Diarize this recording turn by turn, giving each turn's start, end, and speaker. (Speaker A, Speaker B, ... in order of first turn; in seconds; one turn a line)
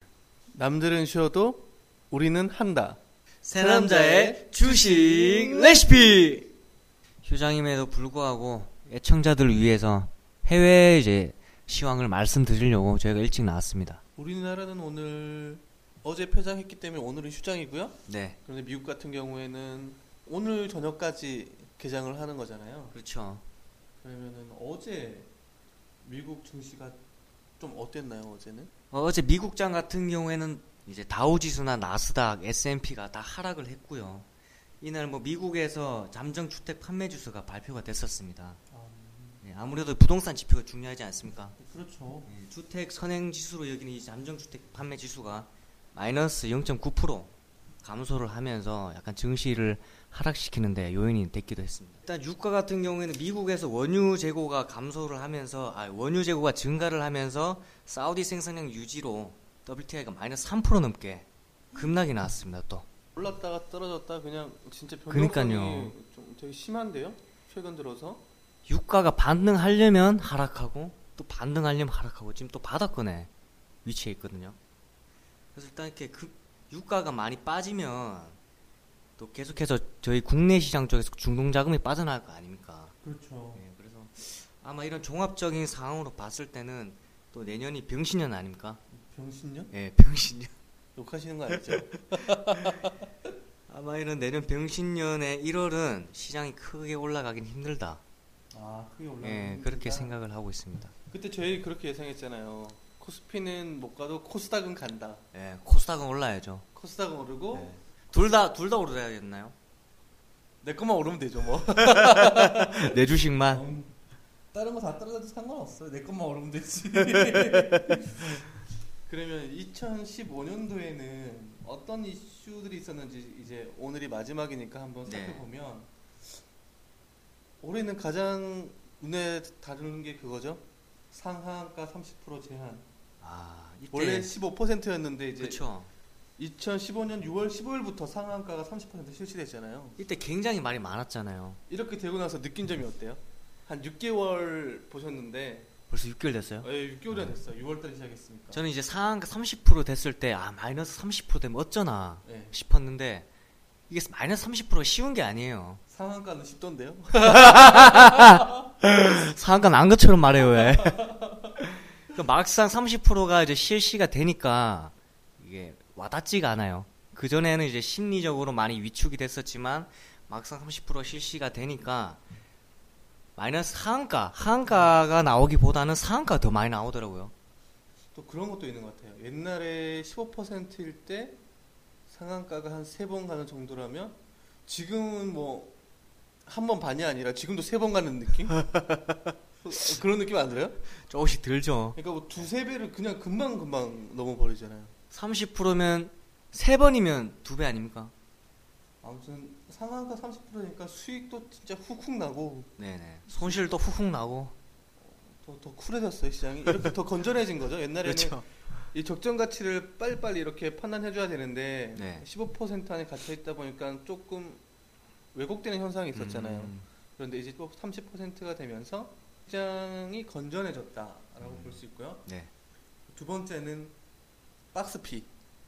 Speaker A: 0.5-3.0
Speaker B: 3.4-6.5
Speaker A: 3.5-6.2
Speaker B: 7.2-14.0
Speaker A: 14.2-22.9
Speaker B: 18.1-18.4
Speaker B: 22.9-23.4
Speaker A: 24.0-25.3
Speaker A: 26.0-27.0
Speaker A: 27.6-28.7
Speaker B: 28.9-34.3
Speaker B: 34.8-38.6
Speaker A: 38.7-39.4
Speaker B: 39.4-41.5
Speaker A: 41.5-42.3
Speaker B: 42.2-62.8
Speaker A: 63.1-68.2
Speaker B: 65.1-65.9
Speaker B: 68.7-73.3
Speaker B: 73.8-74.6
Speaker B: 75.5-78.4
Speaker B: 79.2-82.9
Speaker A: 83.0-83.6
Speaker B: 83.5-88.8
Speaker A: 88.9-89.7
Speaker B: 89.7-90.5
Speaker A: 90.9-93.0
Speaker B: 91.5-91.8
Speaker B: 93.7-98.0
Speaker A: 98.5-100.2
Speaker B: 99.2-100.9
Speaker A: 101.1-105.2
Speaker B: 105.3-106.6
Speaker A: 106.7-107.7
Speaker B: 107.5-109.5
Speaker A: 110.6-112.9
Speaker B: 111.8-113.6
Speaker A: 113.5-114.0
Speaker A: 114.5-118.3
Speaker B: 117.1-118.2
Speaker A: 119.0-125.9
Speaker B: 125.0-125.5
Speaker A: 127.6-132.9
Speaker B: 133.2-134.3
Speaker A: 133.9-135.6
Speaker B: 135.4-135.9
Speaker A: 136.4-140.0
Speaker B: 140.0-141.6
Speaker A: 141.7-145.7
Speaker B: 145.9-147.4
Speaker A: 146.6-148.6
Speaker B: 148.5-153.3
Speaker A: 152.2-152.5
Speaker B: 153.9-155.8
Speaker A: 155.9-158.4
Speaker B: 157.2-172.2
Speaker A: 160.4-161.5
Speaker B: 173.3-177.3
Speaker A: 174.7-174.9
Speaker A: 178.1-181.4
Speaker A: 182.1-185.8
Speaker A: 186.4-188.6
Speaker B: 188.5-189.2
Speaker A: 189.6-190.8
Speaker B: 191.0-192.4
Speaker A: 191.9-194.9
Speaker B: 195.1-198.1
Speaker A: 199.0-202.7
Speaker B: 202.8-204.5
Speaker A: 205.0-214.6
Speaker B: 208.0-208.5
Speaker B: 211.9-212.2
Speaker A: 215.3-222.3
Speaker B: 216.1-216.9
Speaker B: 221.4-222.5
Speaker A: 223.1-223.9
Speaker A: 224.7-225.3